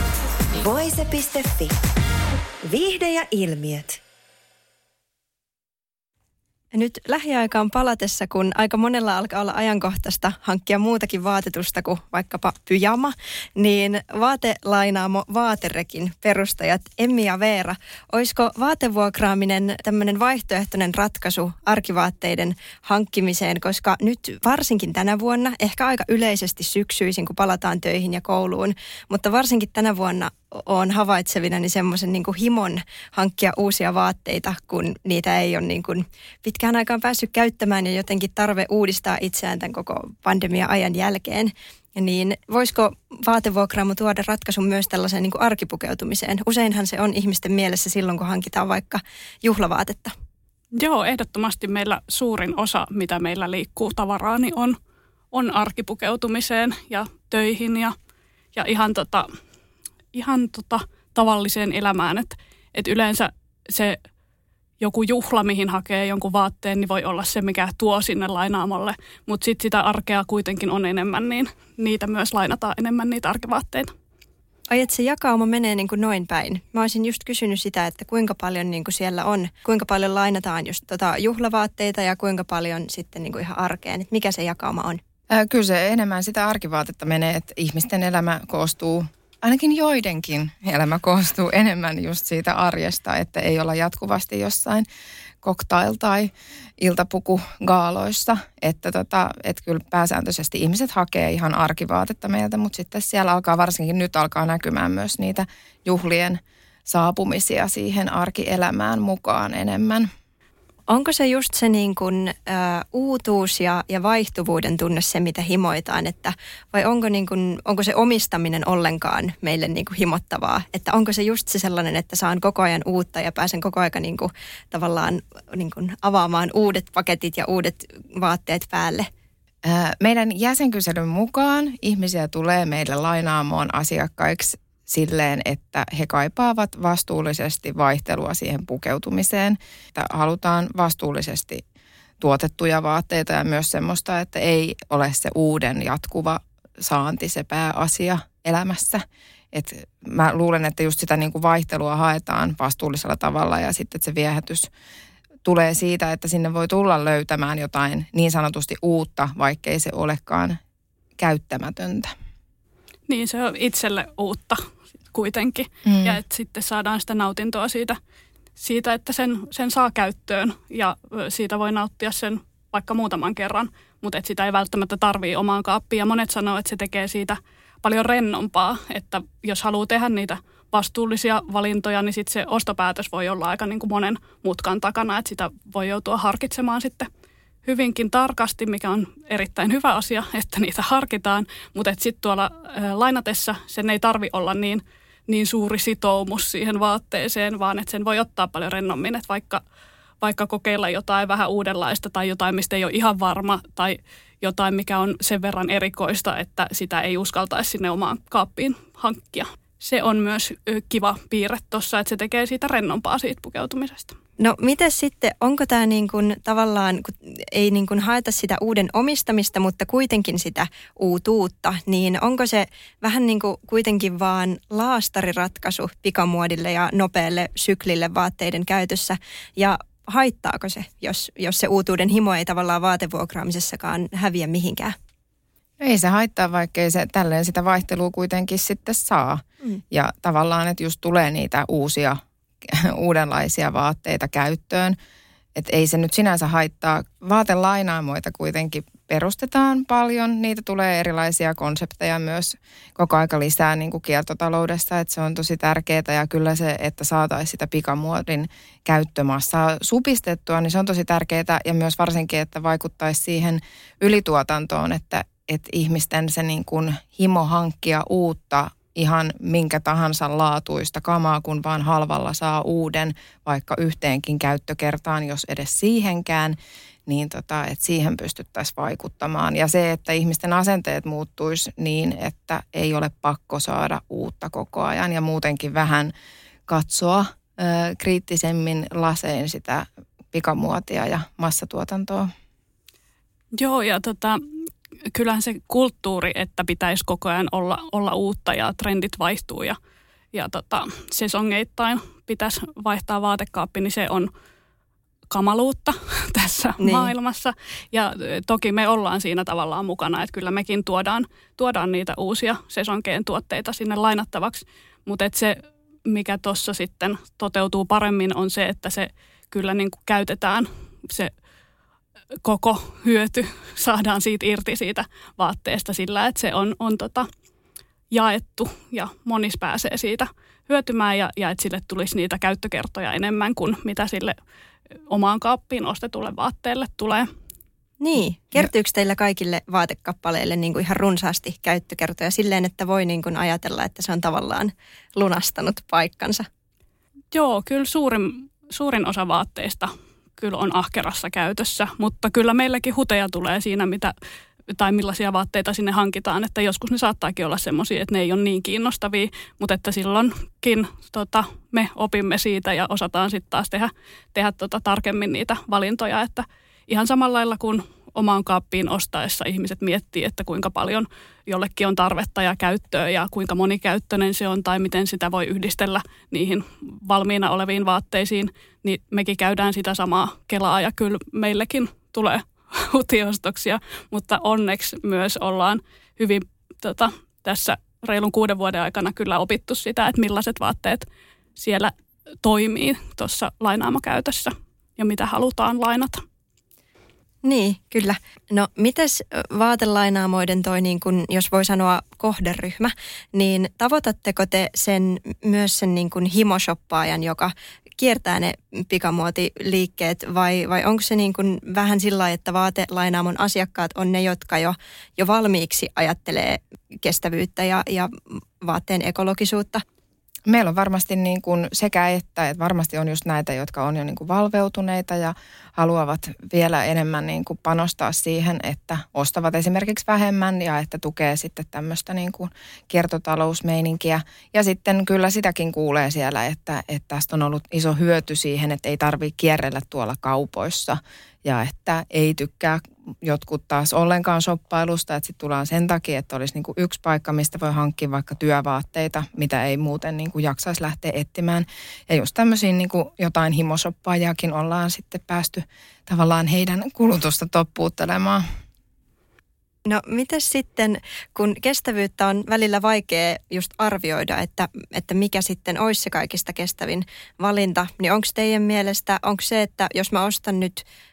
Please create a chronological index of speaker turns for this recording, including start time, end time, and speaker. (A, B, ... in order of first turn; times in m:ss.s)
0:00.6-0:01.7 A
0:02.7-0:04.0 A
0:06.7-0:50.1 B
0:50.8-0:54.8 C
0:55.3-0:57.9 C
0:58.5-0:59.3 C
1:00.1-1:04.0 C
1:04.8-1:13.9 C
1:14.7-1:25.0 B
1:25.3-1:34.8 D
1:35.4-1:50.1 D
1:50.9-2:09.1 B
2:09.6-2:21.6 D
2:22.2-2:34.7 D
2:35.4-2:40.6 D
2:41.2-2:42.1 D
2:43.1-2:44.6 C
2:45.1-2:48.0 C
2:45.8-2:46.2 D
2:48.6-3:07.1 C
3:07.6-3:19.6 C
3:20.2-3:34.1 C
3:34.4-3:54.9 B
3:55.8-4:05.0 D
4:05.6-4:46.1 D
4:46.7-4:52.3 D
4:53.6-4:54.4 C
4:55.1-4:59.8 C
5:00.3-5:04.3 C
5:05.3-5:21.3 C
5:06.8-5:07.1 B
5:22.4-5:27.3 C
5:28.1-5:34.4 C
5:35.1-5:37.3 C
5:38.0-5:46.4 B
5:47.3-5:54.1 C
5:54.7-6:31.0 C
6:31.6-6:36.2 C
6:37.4-6:59.8 B
7:00.5-7:38.4 D
7:39.8-7:50.8 B